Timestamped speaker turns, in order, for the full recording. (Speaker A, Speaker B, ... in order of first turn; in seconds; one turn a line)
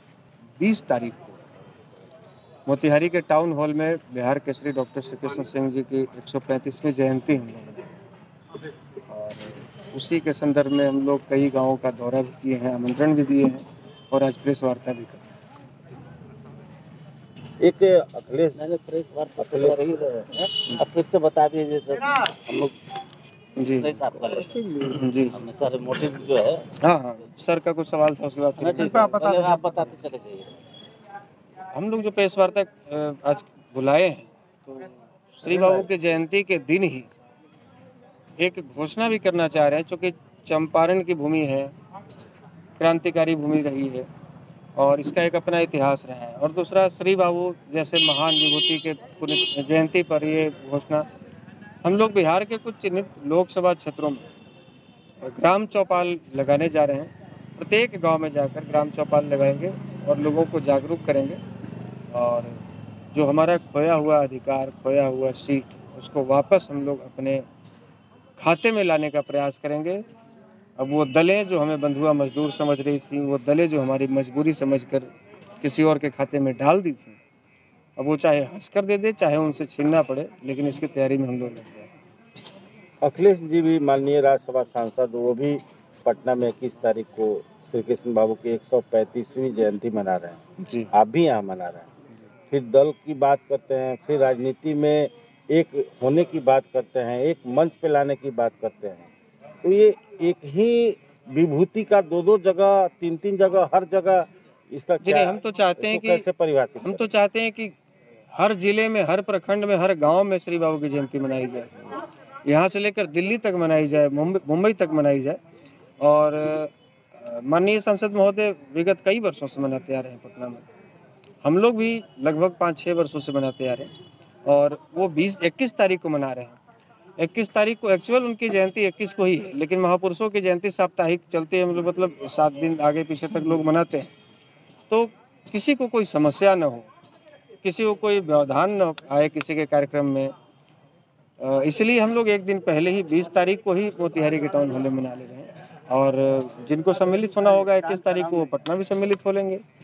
Speaker A: 0.6-1.4
Speaker A: 2.7-7.8
Speaker A: 9.1-15.2
Speaker B: 17.6-18.7
Speaker C: 18.6-20.8
Speaker B: 19.4-19.9
Speaker B: 20.6-22.7
Speaker A: 23.6-24.1
Speaker C: 23.8-24.6
Speaker A: 24.6-25.4
Speaker C: 25.3-26.7
Speaker A: 26.8-29.9
Speaker C: 28.6-30.5
Speaker B: 28.8-29.1
Speaker A: 31.7-37.1
Speaker A: 38.4-41.7
Speaker A: 42.8-44.1
Speaker A: 44.8-51.0
Speaker A: 51.8-54.3
Speaker A: 55.2-61.4
Speaker A: 62.1-62.6
Speaker A: 63.1-67.4
Speaker A: 68.4-70.0
Speaker A: 70.8-75.1
Speaker A: 75.6-77.2
Speaker A: 78.0-81.9
Speaker B: 83.0-90.4
Speaker A: 90.6-90.9
Speaker B: 90.9-91.9
Speaker B: 92.5-99.1
Speaker B: 99.6-107.1
Speaker A: 105.0-106.2
Speaker A: 106.8-107.7
Speaker A: 108.3-111.7
Speaker A: 112.5-115.4
Speaker A: 116.0-120.6
Speaker A: 121.4-123.9
Speaker A: 124.5-126.6
Speaker A: 127.2-134.1
Speaker A: 134.9-136.9
Speaker A: 137.6-140.3
Speaker A: 141.4-149.6